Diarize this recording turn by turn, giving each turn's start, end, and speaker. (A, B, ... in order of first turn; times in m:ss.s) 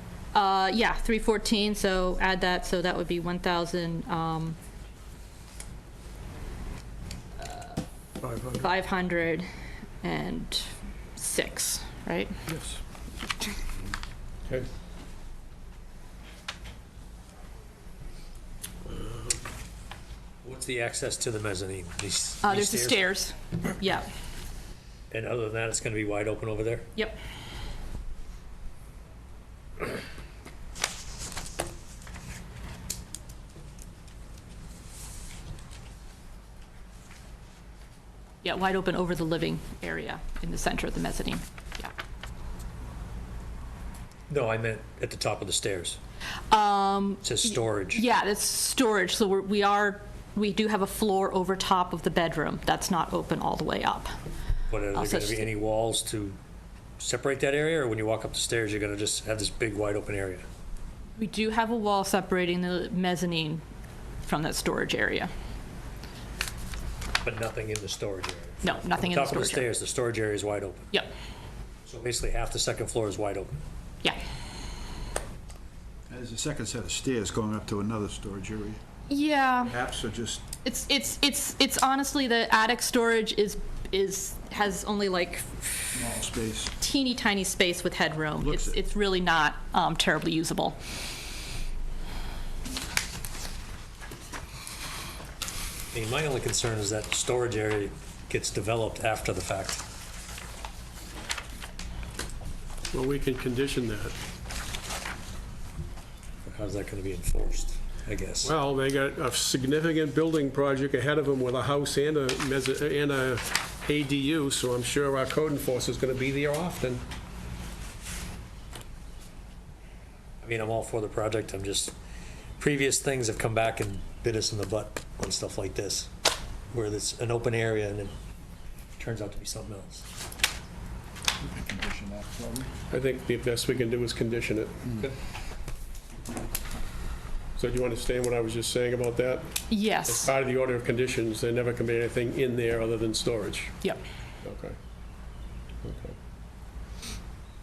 0:00.3-0:04.6 A
0:07.4-0:07.8 A
0:08.5-0:09.5 A
0:10.0-0:12.3 A
0:12.5-0:12.8 B
0:20.4-0:23.0 C
0:22.4-0:24.1 A
0:25.1-0:26.9 C
0:38.4-0:41.9 A
0:44.3-0:46.0 C
0:46.5-0:54.1 A
0:47.2-0:48.0 C
0:54.7-0:56.4 C
0:54.9-0:55.5 A
0:57.0-1:00.4 C
1:01.2-1:03.6 A
1:04.2-1:05.3 A
1:07.2-1:10.9 C
1:08.6-1:09.7 A
1:11.8-1:13.5 C
1:16.1-1:18.8 B
1:19.1-1:19.8 A
1:19.6-1:20.4 B
1:20.6-1:26.0 A
1:25.9-1:26.7 B
1:26.8-1:30.8 A
1:28.4-1:28.8 B
1:35.9-1:39.8 C
1:42.9-1:44.1 D
1:46.4-1:48.5 C
1:48.4-1:57.0 D
2:00.4-2:01.9 C
2:02.6-2:06.1 C
2:06.7-2:08.1 C
2:09.0-2:10.0 C
2:11.4-2:12.7 B
2:12.9-2:15.0 D
2:17.6-2:23.8 D
2:19.7-2:20.3 A
2:24.4-2:24.8 D
2:25.8-2:26.2 D